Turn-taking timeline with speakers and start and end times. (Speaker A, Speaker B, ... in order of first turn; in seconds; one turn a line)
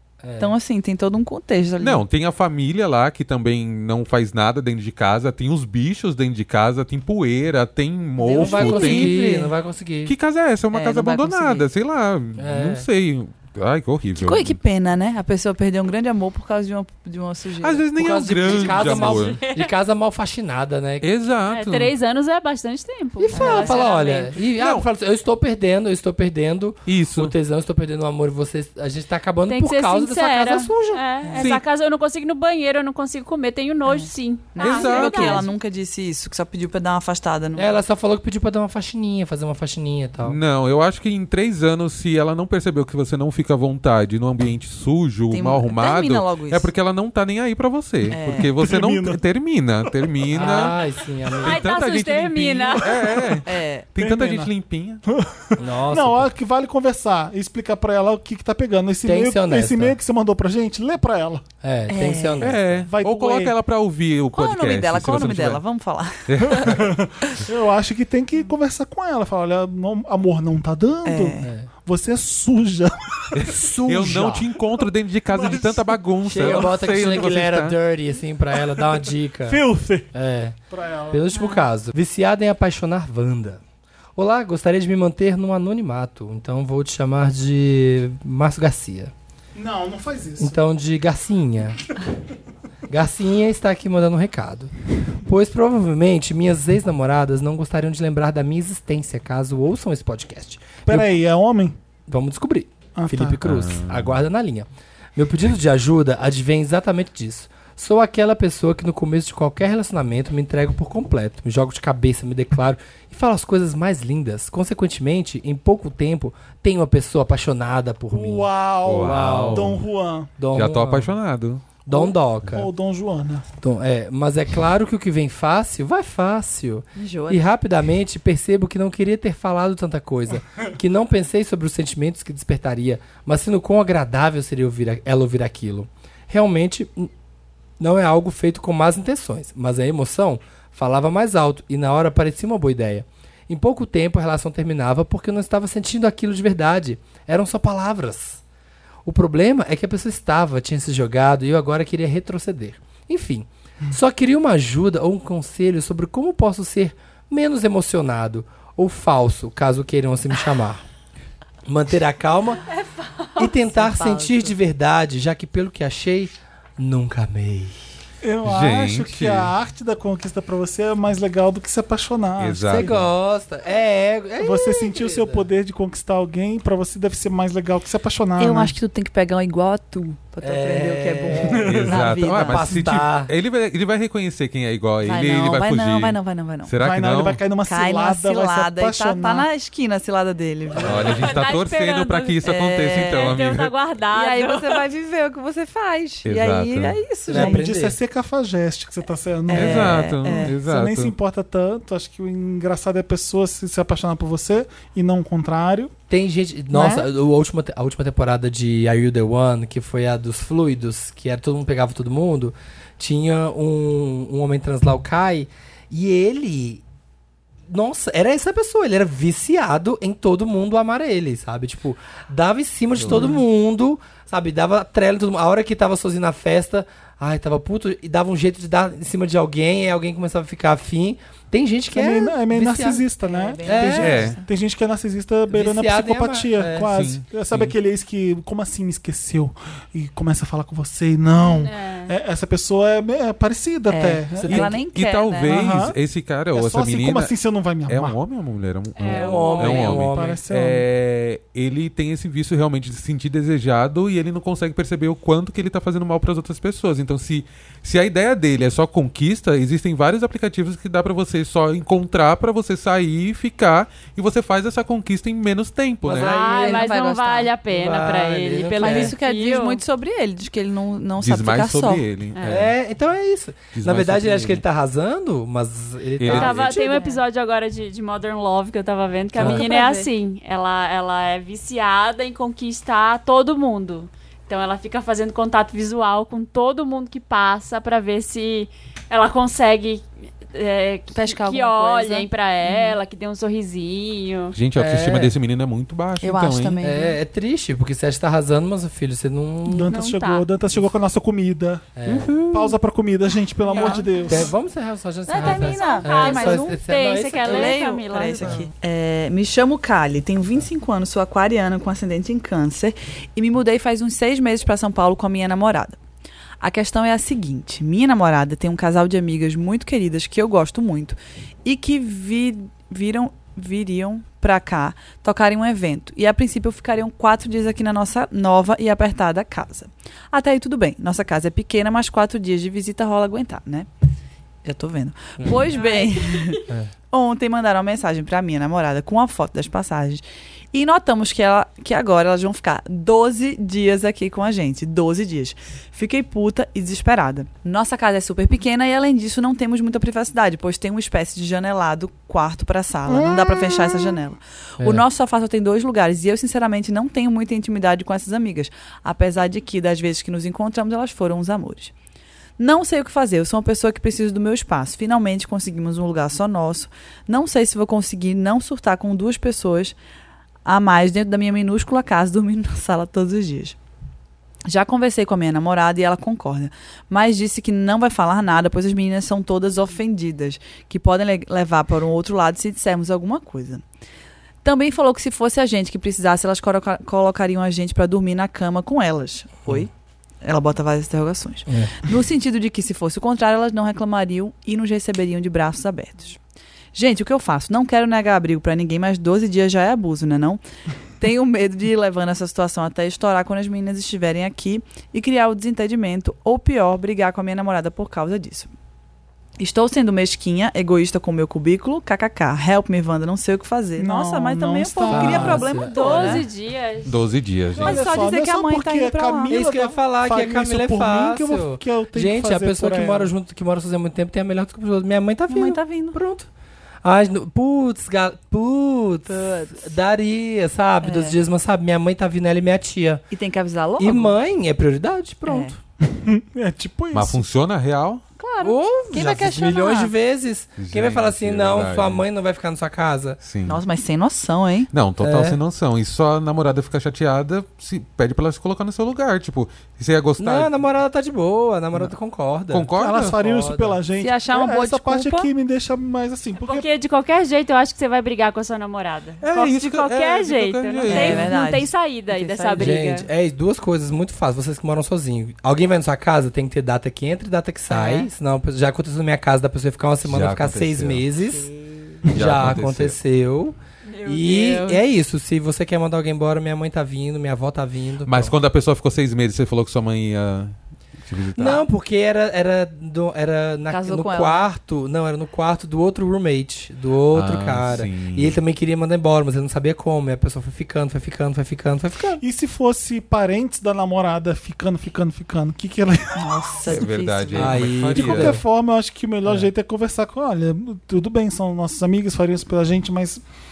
Speaker A: 0.2-0.6
Speaker B: 0.4-2.0
Speaker C: 1.8-9.5
Speaker B: 8.2-9.2
Speaker A: 8.3-10.1
Speaker C: 10.1-14.6
Speaker B: 10.7-11.7
Speaker A: 12.4-12.9
Speaker B: 14.2-17.9
Speaker C: 17.6-19.4
Speaker A: 18.0-21.1
Speaker B: 18.4-19.2
Speaker D: 19.3-19.7
Speaker C: 21.0-21.9
Speaker D: 21.5-24.4
Speaker A: 23.2-31.0
Speaker B: 23.3-23.8
Speaker C: 24.5-24.9
Speaker C: 26.9-27.3
Speaker D: 29.5-35.5
Speaker B: 31.2-31.5
Speaker C: 31.4-31.6
Speaker B: 33.9-37.7
Speaker C: 34.6-35.5
Speaker A: 37.6-40.4
Speaker C: 40.2-50.8
Speaker B: 45.3-46.7
Speaker B: 48.1-48.5
Speaker E: 48.5-49.2
Speaker A: 50.3-51.7
Speaker C: 51.4-55.0
Speaker D: 51.4-53.1
Speaker E: 52.9-53.4
Speaker B: 53.5-53.9
Speaker E: 54.0-54.5
Speaker E: 55.1-61.4
Speaker A: 55.6-56.3
Speaker A: 59.0-60.0
Speaker A: 61.6-62.9
Speaker B: 61.9-62.5
Speaker C: 62.4-65.6
Speaker E: 62.9-63.5
Speaker B: 64.3-66.8
Speaker C: 66.3-66.9
Speaker E: 66.5-73.5
Speaker B: 71.0-71.5
Speaker A: 71.4-71.7
Speaker C: 73.3-77.8
Speaker A: 73.5-74.5
Speaker E: 75.3-76.7
Speaker A: 76.2-80.6
Speaker E: 78.7-80.1
Speaker E: 80.7-81.3
Speaker A: 81.1-83.6
Speaker A: 84.2-89.1
Speaker E: 89.5-90.6
Speaker A: 90.4-91.9
Speaker A: 92.9-101.1
Speaker E: 100.9-101.8
Speaker A: 102.1-119.8
Speaker E: 103.0-103.4
Speaker C: 103.5-104.2
Speaker E: 118.1-120.3
Speaker C: 118.8-119.8
Speaker A: 120.4-121.1
Speaker C: 120.5-121.8
Speaker A: 121.8-122.7
Speaker E: 121.9-123.5
Speaker A: 123.6-137.1
Speaker B: 127.0-127.5
Speaker A: 137.8-148.4
Speaker A: 149.1-160.8
Speaker A: 161.7-162.6
Speaker D: 162.7-163.4
Speaker A: 163.4-167.8
Speaker B: 163.6-164.6
Speaker E: 168.2-173.0
Speaker C: 168.4-169.5
Speaker C: 172.4-173.1
Speaker A: 172.7-175.5
Speaker E: 174.4-178.7
Speaker B: 178.4-182.7
Speaker A: 180.4-183.3
Speaker E: 181.6-181.9
Speaker C: 181.6-187.4
Speaker B: 185.0-186.7
Speaker E: 186.8-189.5
Speaker B: 187.7-191.4
Speaker C: 190.8-193.7
Speaker A: 190.9-191.1
Speaker D: 191.0-192.4
Speaker B: 192.4-193.3
Speaker D: 193.1-194.8
Speaker B: 194.1-197.6
Speaker C: 196.2-197.0
Speaker A: 197.3-198.0
Speaker E: 197.3-205.9
Speaker B: 199.5-200.5
Speaker C: 199.5-201.1
Speaker A: 206.1-216.8
Speaker E: 206.7-207.1
Speaker A: 217.7-233.0
Speaker C: 223.0-223.3
Speaker E: 231.9-244.7
Speaker B: 233.2-234.4
Speaker A: 233.7-234.3
Speaker C: 234.0-234.4
Speaker A: 235.5-236.9
Speaker C: 236.9-237.7
Speaker D: 241.4-242.2
Speaker B: 243.9-245.5
Speaker A: 244.4-244.8
Speaker C: 244.5-247.3
Speaker E: 245.5-246.0
Speaker E: 246.5-248.2
Speaker C: 247.9-266.3
Speaker D: 249.0-250.1
Speaker A: 249.1-250.4
Speaker E: 250.0-250.8
Speaker A: 266.0-266.9
Speaker D: 266.2-269.8
Speaker B: 266.2-267.5
Speaker A: 267.7-269.2
Speaker B: 268.8-272.1
Speaker C: 271.2-272.8
Speaker D: 272.3-272.6
Speaker A: 272.5-277.1
Speaker C: 273.8-274.6
Speaker C: 276.2-276.8
Speaker D: 276.3-294.6
Speaker B: 279.4-280.1
Speaker A: 279.4-279.6
Speaker B: 291.1-293.0
Speaker C: 294.5-296.8
Speaker A: 294.8-295.4
Speaker B: 296.2-297.2
Speaker A: 296.8-299.9
Speaker E: 299.7-301.9
Speaker D: 299.9-300.5
Speaker A: 302.0-302.4
Speaker C: 302.1-302.4
Speaker E: 302.5-304.5
Speaker D: 303.7-304.0
Speaker B: 303.7-304.2
Speaker A: 304.3-307.8
Speaker B: 305.3-316.0
Speaker D: 305.3-308.7
Speaker B: 316.6-333.9
Speaker B: 334.6-361.9
Speaker D: 335.5-336.6
Speaker E: 353.1-354.2
Speaker B: 362.6-370.0
Speaker B: 370.6-373.8
Speaker B: 374.7-383.8
Speaker B: 384.6-389.9
Speaker B: 390.4-396.4
Speaker A: 391.7-391.9
Speaker B: 396.9-400.6
Speaker B: 401.2-408.7
Speaker B: 409.6-416.4
Speaker E: 414.0-415.8
Speaker A: 415.1-416.4
Speaker D: 415.9-417.3
Speaker C: 417.1-418.1
Speaker E: 417.8-423.3
Speaker B: 417.8-419.6
Speaker D: 417.8-418.3
Speaker A: 419.5-426.5
Speaker B: 425.5-426.2
Speaker A: 427.0-433.3
Speaker B: 429.3-429.9
Speaker B: 431.0-431.4
Speaker B: 433.3-434.3
Speaker A: 434.0-435.8
Speaker B: 435.5-435.8
Speaker E: 436.0-437.5
Speaker C: 437.1-438.2
Speaker B: 438.4-440.1
Speaker A: 438.6-443.4
Speaker C: 440.8-442.2
Speaker C: 443.4-443.8
Speaker B: 443.6-444.9
Speaker C: 444.9-450.7
Speaker A: 445.2-445.6
Speaker A: 450.4-454.0
Speaker C: 452.7-453.4
Speaker E: 452.9-456.9
Speaker B: 454.2-455.5
Speaker D: 456.6-463.3
Speaker C: 459.4-461.5
Speaker B: 461.1-463.0
Speaker A: 462.8-471.7
Speaker B: 467.9-468.3
Speaker C: 470.2-471.3
Speaker B: 471.7-472.0
Speaker C: 472.3-473.2
Speaker A: 472.3-478.6
Speaker D: 474.1-475.0
Speaker C: 478.2-480.8
Speaker C: 481.3-481.8
Speaker A: 481.6-492.4
Speaker B: 483.9-484.7
Speaker C: 487.3-488.6
Speaker E: 492.4-496.5
Speaker B: 496.4-498.0
Speaker C: 496.9-498.6
Speaker A: 497.5-498.6
Speaker E: 498.1-503.4